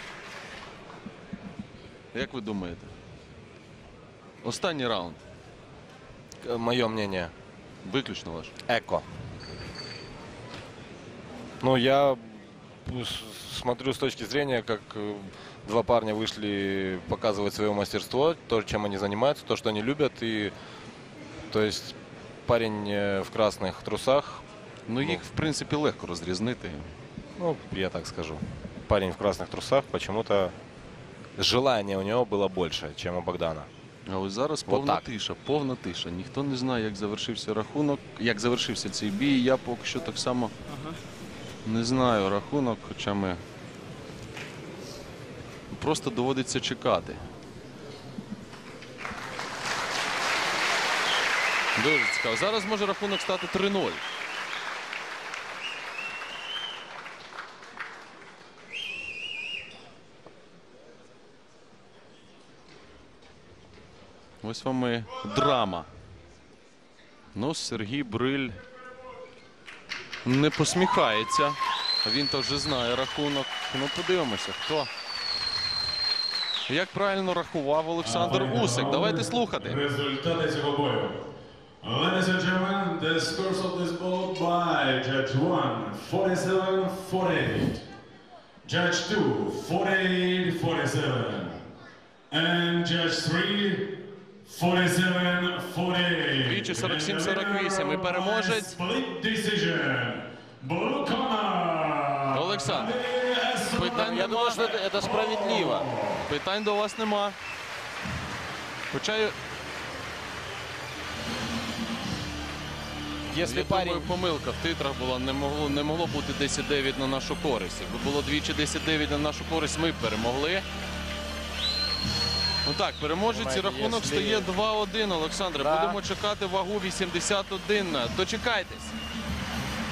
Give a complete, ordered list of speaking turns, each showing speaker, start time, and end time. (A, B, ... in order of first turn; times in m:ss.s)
0:02.1-0:02.9 A
0:04.4-0:05.2 A
0:06.4-0:07.3 B
0:07.8-0:08.5 A
0:08.6-0:09.0 B
0:11.6-0:20.5 B
0:21.5-0:24.4 B
0:24.9-0:26.9 A
0:27.4-0:30.5 B
0:31.4-0:33.7 B
0:34.0-0:40.5 A
0:34.7-0:35.0 B
0:41.6-0:43.4 A
0:45.7-0:47.2 A
0:51.8-0:54.0 A
1:04.4-1:05.9 A
1:07.3-1:08.6 A
1:10.2-1:14.9 A
1:16.7-1:19.8 A
1:18.0-1:21.2 C
1:21.8-1:27.8 C
1:28.6-1:31.6 C
1:32.3-1:46.2 C
1:36.4-1:38.8 A
1:42.3-1:43.0 A
1:43.7-1:44.6 A
1:43.9-1:45.9 B
1:46.2-1:47.4 A
1:48.9-1:49.3 A
1:53.3-1:54.1 B
1:53.4-2:00.6 A
2:02.6-2:09.0 A
2:03.3-2:04.5 B
2:05.6-2:06.0 B